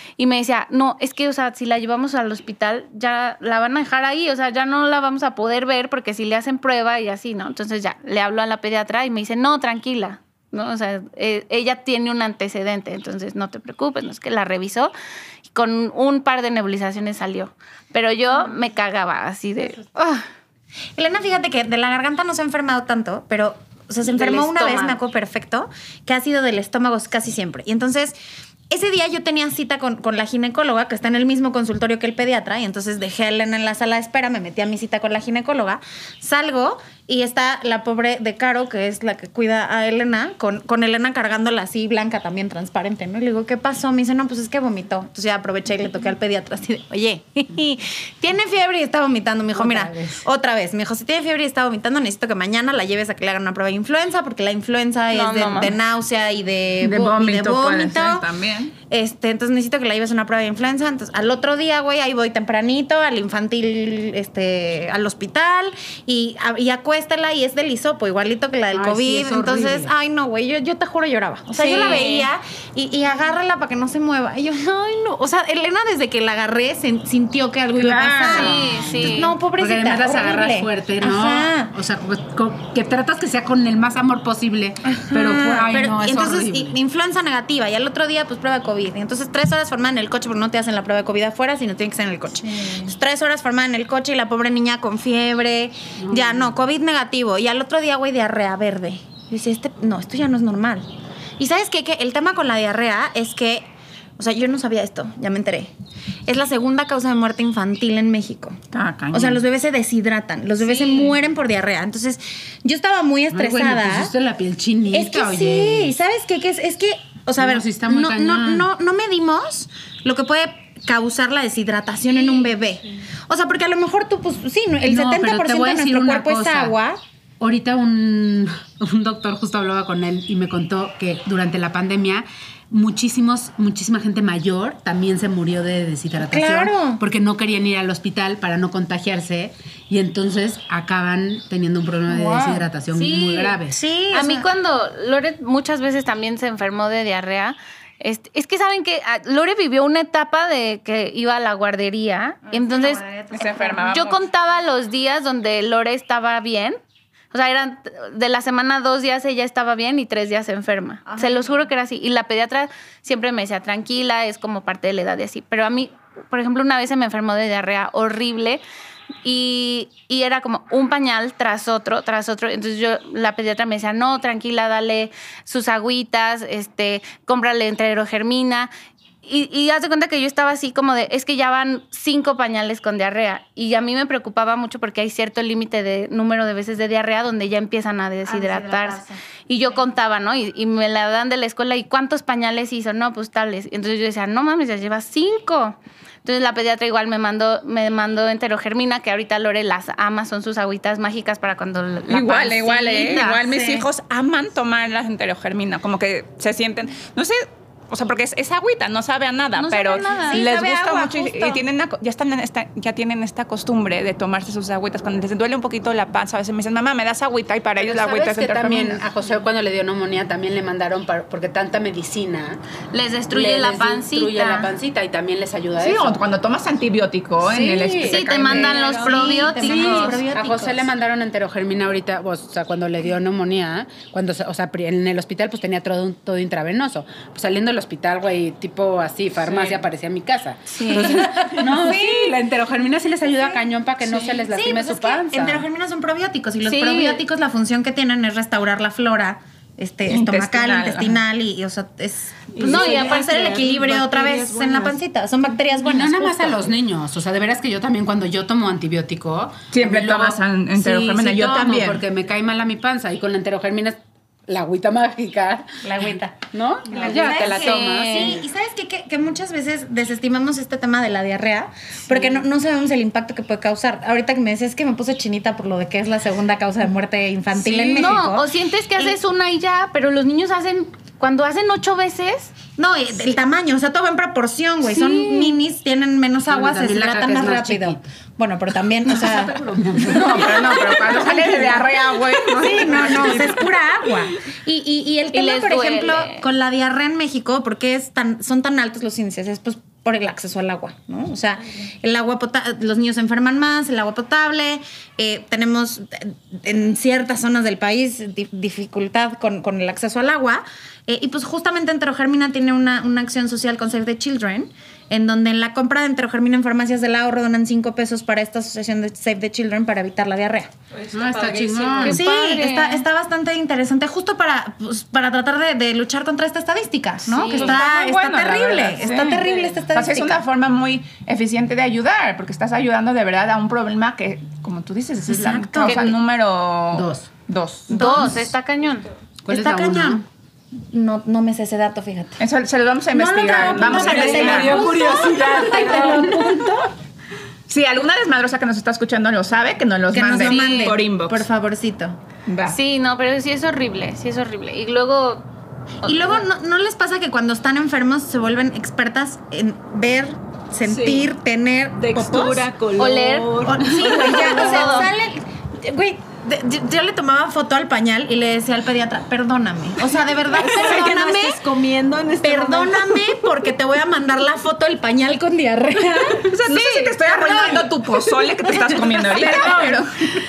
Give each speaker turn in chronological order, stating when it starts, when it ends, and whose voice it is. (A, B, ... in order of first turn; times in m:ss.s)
0:00.2-0:14.9 A
0:15.5-0:20.2 A
0:21.0-0:28.2 B
0:24.1-0:25.0 A
0:28.7-0:58.2 B
0:49.5-0:50.2 C
0:55.1-0:55.8 A
0:56.8-0:58.7 D
0:58.9-1:21.7 B
1:08.7-1:09.9 C
1:11.5-1:12.3 A
1:17.8-1:18.5 D
1:18.3-1:26.8 C
1:18.3-1:19.4 A
1:24.9-1:40.8 B
1:36.0-1:36.5 C
1:41.4-1:45.7 B
1:46.2-1:48.6 B
1:48.7-1:49.4 D
1:49.1-1:54.1 B
1:50.6-1:51.1 A
1:53.3-1:56.0 C
1:54.9-2:07.0 B
1:57.4-1:58.7 C
2:04.8-2:06.8 C
2:07.4-2:23.8 C
2:16.2-2:17.0 B
2:22.3-2:22.5 B
2:22.9-2:23.6 A
2:23.7-2:24.5 B
2:24.1-2:33.0 A
2:32.5-2:34.0 B
2:33.3-2:34.2 D
2:33.8-2:36.8 A
2:37.3-2:48.6 A
2:41.0-2:41.6 B
2:49.2-2:58.7 A
2:59.2-3:23.4 A
3:08.2-3:09.8 B
3:22.1-3:39.0 D
3:23.1-3:23.9 B
3:29.6-3:30.4 A
3:30.1-3:31.6 B
3:37.8-3:42.6 C
3:42.9-3:44.7 A
3:43.3-3:46.2 C
3:45.8-3:49.4 D
3:47.4-3:48.2 C
3:48.0-3:50.2 A
3:48.4-3:50.9 B
3:49.6-4:05.7 C
4:00.7-4:01.2 A
4:00.9-4:02.3 B
4:04.0-4:16.7 B
4:06.6-4:07.2 A
4:10.1-4:11.2 D
4:12.5-4:15.0 E
4:12.6-4:13.6 A
4:15.8-4:28.4 C
4:19.7-4:22.0 D
4:25.8-4:39.2 B
4:27.2-4:28.4 A
4:37.9-4:42.5 A
4:42.8-4:49.6 B
4:44.9-4:45.5 C
4:46.5-4:48.1 C
4:49.0-4:51.9 C
4:50.0-4:53.7 D
4:52.5-5:20.7 B
4:52.9-4:53.4 C
4:55.3-4:56.4 A
5:21.1-5:22.2 C
5:21.2-5:22.0 E
5:22.0-5:30.4 B
5:22.0-5:23.0 A
5:27.3-5:27.8 A
5:27.5-5:38.4 D
5:35.2-5:36.1 B
5:36.9-5:37.3 C
5:37.9-5:39.1 A
5:37.9-5:38.3 B
5:39.4-5:40.2 C
5:39.5-5:40.2 B
5:40.9-5:42.4 B
5:42.4-5:44.9 D
5:43.1-5:46.9 B
5:43.2-5:46.9 C
5:47.7-5:51.4 D
5:50.1-5:52.2 B
5:50.4-5:51.0 A
5:52.5-5:52.8 D
5:52.7-5:55.4 A
5:56.0-5:56.4 A
5:56.0-6:02.7 B
6:00.9-6:01.3 E
6:02.0-6:05.1 E
6:03.0-6:05.1 A
6:03.6-6:11.6 B
6:10.5-6:13.2 E
6:12.4-6:17.9 B
6:16.4-6:20.1 D
6:18.8-6:20.0 B
6:19.3-6:20.0 C